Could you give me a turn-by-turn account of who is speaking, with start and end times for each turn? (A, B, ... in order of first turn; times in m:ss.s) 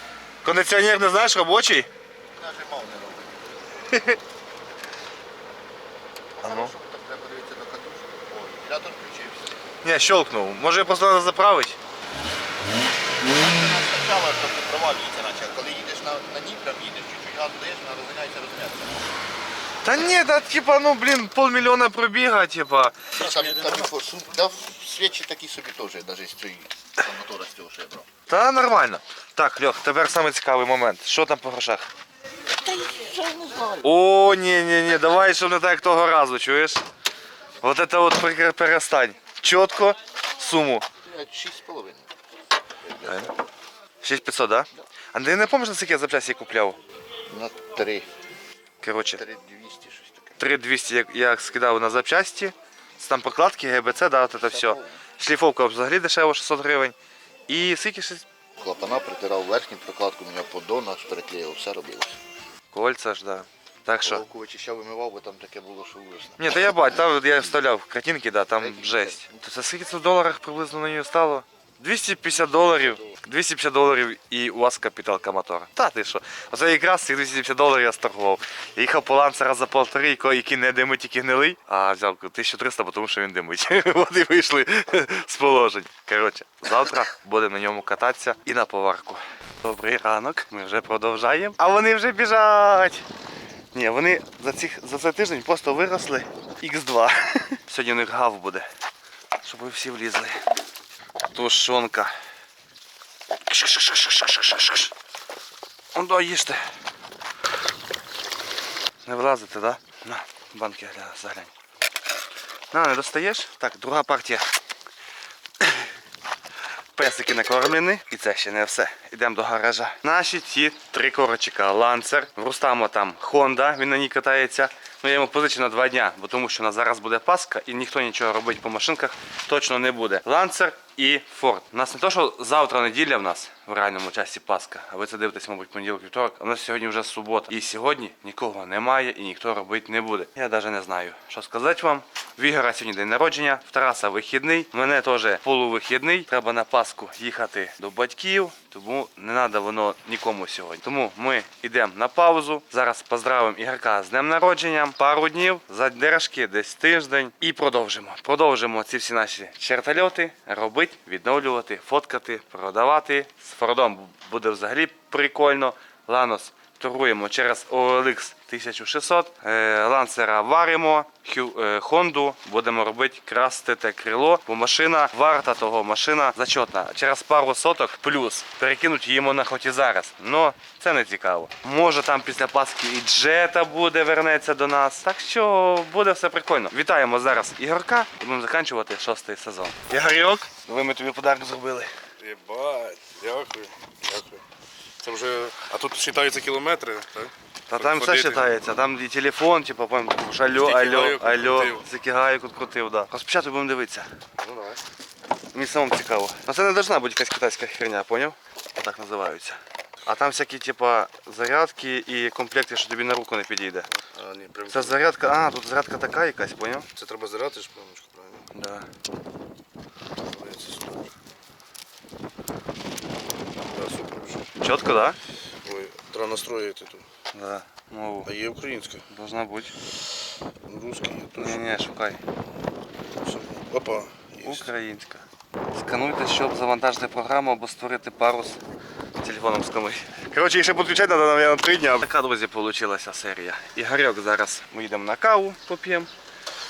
0:00.4-0:01.9 A
0:02.4-0:03.5 B
0:03.9-0:04.2 A
0:06.4-0:09.6 B
0:06.4-0:06.7 A
0:09.8-0:11.8 A
0:13.3-0:19.1 B
0:19.8-0:23.1 A
0:23.1-0:28.1 B
0:28.3-0:31.9 A
0:32.6-0:33.9 B
0:33.8-0:36.8 A
0:37.6-0:40.9 A
0:41.0-0:42.1 B
0:42.9-0:43.3 B
0:43.0-0:43.3 A
0:44.0-0:46.8 A
0:47.3-0:48.1 B
0:48.8-0:49.2 A
0:49.2-0:50.4 B
0:50.4-0:57.0 A
0:54.5-0:55.0 B
0:57.5-0:58.2 A
0:58.6-1:02.2 B
1:02.7-1:04.2 A
1:04.0-1:07.6 B
1:06.4-1:33.0 A
1:08.6-1:09.4 B
1:33.7-1:38.7 A
1:39.4-1:40.4 A
1:41.3-1:42.1 A
1:43.5-1:44.9 A
1:45.9-1:46.6 A
1:49.0-1:51.5 A
1:52.7-1:54.4 A
1:57.0-3:11.9 A
3:12.2-3:14.4 C
3:15.0-3:18.5 C
3:17.7-3:24.1 A
3:20.5-3:21.9 C
3:24.4-3:24.8 C
3:25.5-3:33.9 A
3:34.0-3:35.0 C
3:34.7-3:36.9 A
3:37.0-3:38.4 C
3:38.5-3:38.9 A
3:40.2-3:41.1 C
3:43.6-3:44.5 C
3:44.6-3:45.2 A
3:45.6-3:47.0 C
3:47.3-3:48.3 A
3:48.2-3:49.0 C
3:49.1-3:49.7 A
3:50.7-3:51.6 C
3:51.4-3:52.2 A
3:53.1-3:54.7 C
3:54.4-3:58.6 A
3:59.2-4:06.1 A